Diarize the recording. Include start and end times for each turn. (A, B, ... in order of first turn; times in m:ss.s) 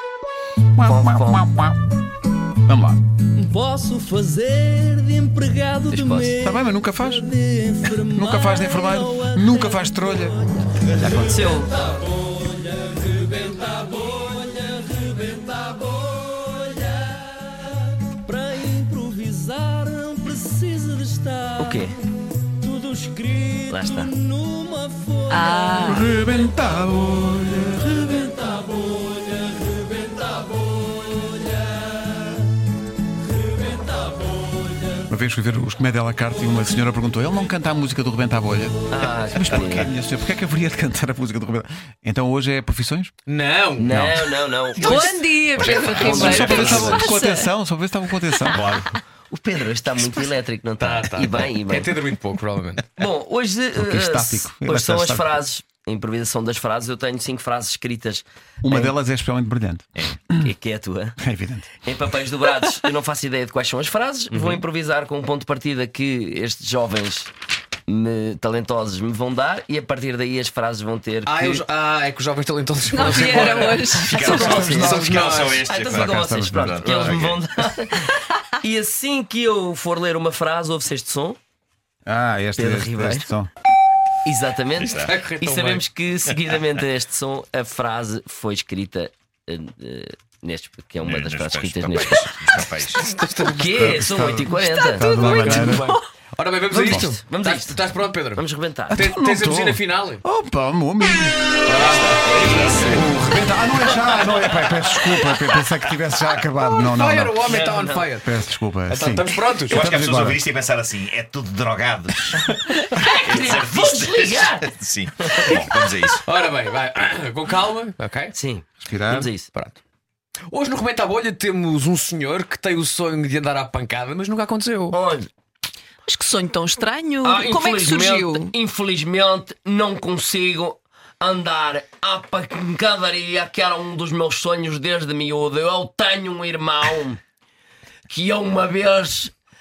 0:00.8-0:01.8 A
0:00.8-0:01.5 B
0:02.6-0:03.0 A
0:03.4-0:06.1 C
0:05.9-0:06.4 B
0:06.4-0:07.3 A
0:07.5-0:09.0 C
0:07.9-0:11.5 A
0:08.3-0:08.6 D
0:11.0-0:11.8 B
0:16.1-0:16.7 C
0:17.0-0:17.4 D
0:18.3-0:21.5 C
0:21.6-0:22.0 B
0:22.7-0:23.7 C
0:23.7-0:24.1 B
0:24.4-0:25.0 C
0:25.3-0:26.1 D
0:25.8-0:28.3 A
0:35.1-0:38.8 A
0:38.9-0:39.9 B
0:39.3-0:43.1 A
0:39.5-0:39.9 E
0:43.3-0:43.9 F
0:43.8-0:47.1 B
0:43.8-0:45.1 A
0:44.8-0:47.5 D
0:45.6-0:46.9 E
0:45.6-0:46.6 F
0:46.0-0:48.6 A
0:48.5-0:49.0 E
0:49.3-0:51.9 B
0:50.8-0:52.8 F
0:53.0-0:58.9 B
0:53.8-0:55.3 A
0:58.6-1:00.5 A
1:00.4-1:01.2 B
1:01.2-1:01.8 A
1:01.8-1:07.3 B
1:04.3-1:04.6 F
1:07.9-1:11.6 B
1:11.2-1:15.7 F
1:12.9-1:14.6 D
1:13.6-1:17.4 E
1:14.1-1:21.4 B
1:14.2-1:15.2 A
1:15.8-1:16.8 A
1:16.8-1:17.2 F
1:22.0-1:23.5 A
1:22.6-1:23.3 B
1:24.2-1:32.3 B
1:24.8-1:25.2 E
1:25.0-1:25.8 F
1:31.0-1:33.0 E
1:33.0-1:33.8 F
1:33.4-1:36.0 B
1:33.7-1:35.9 A
1:34.6-1:36.0 D
1:35.3-1:35.8 F
1:36.4-1:40.2 F
1:36.7-1:39.0 B
1:36.8-1:37.1 A
1:38.9-1:41.4 A
1:41.7-1:43.0 F
1:41.7-1:43.1 E
1:42.3-1:43.0 B
1:42.9-1:50.4 A
1:46.8-1:49.9 F
1:47.4-1:48.1 B
1:49.7-1:52.5 E
1:52.5-1:52.9 A
1:53.0-1:54.7 B
1:53.2-1:56.2 E
1:55.2-1:55.6 B
1:56.2-1:58.3 F
1:58.3-1:59.5 B
1:58.8-1:59.3 A
2:00.5-2:05.0 F
2:04.9-2:05.3 B
2:06.1-2:08.5 D
2:07.2-2:17.2 B
2:18.1-2:19.3 B